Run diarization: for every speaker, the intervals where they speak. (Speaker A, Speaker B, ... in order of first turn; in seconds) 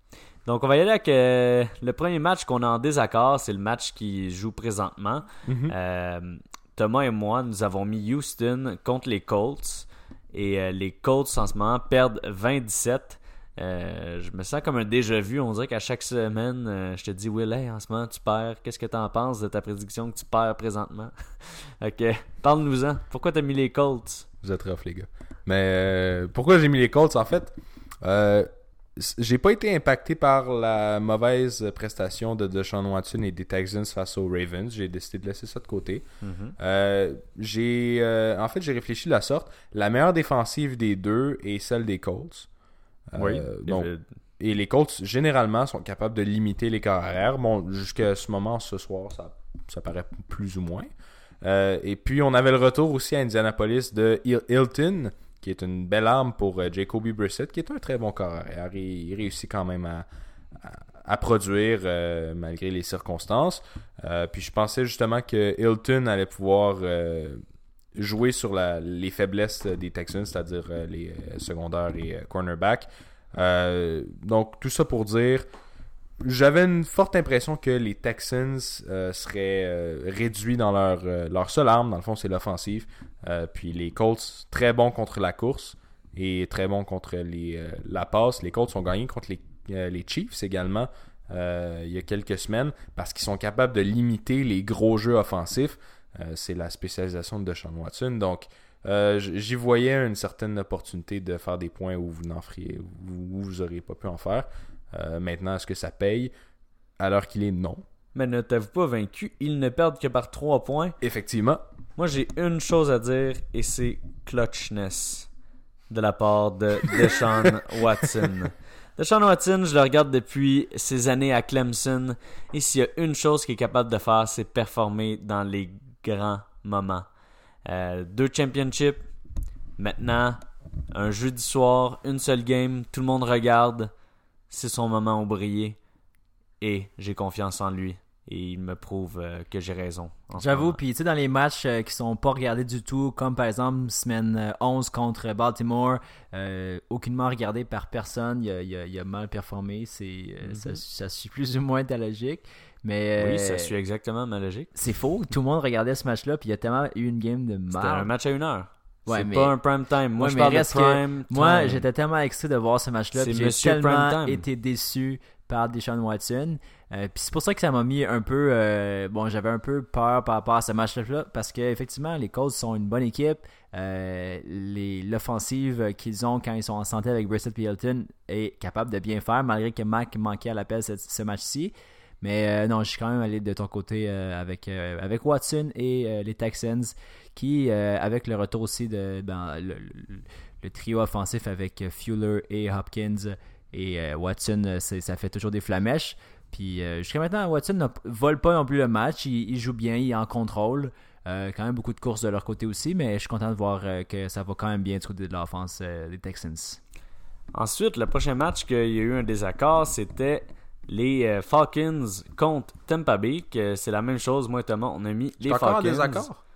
Speaker A: 0.5-24.2, 36.2-36.5, 43.2-44.0, 108.1-111.0, 112.0-115.3, 115.9-127.0, 127.6-129.0, 129.8-133.9, 134.5-135.8, 136.6-140.8, 150.4-150.8, 153.2-154.7, 157.7-161.8, 163.1-164.4, 207.5-216.3
Speaker B: 5.5-5.7, 24.4-36.0, 36.6-42.5, 43.1-50.9, 51.4-60.0, 60.6-67.4, 67.9-75.4, 76.2-106.3, 107.0-107.8, 111.0-111.6, 215.4-216.4
Speaker C: 140.3-153.7, 154.7-158.1, 159.1-159.6, 160.2-206.8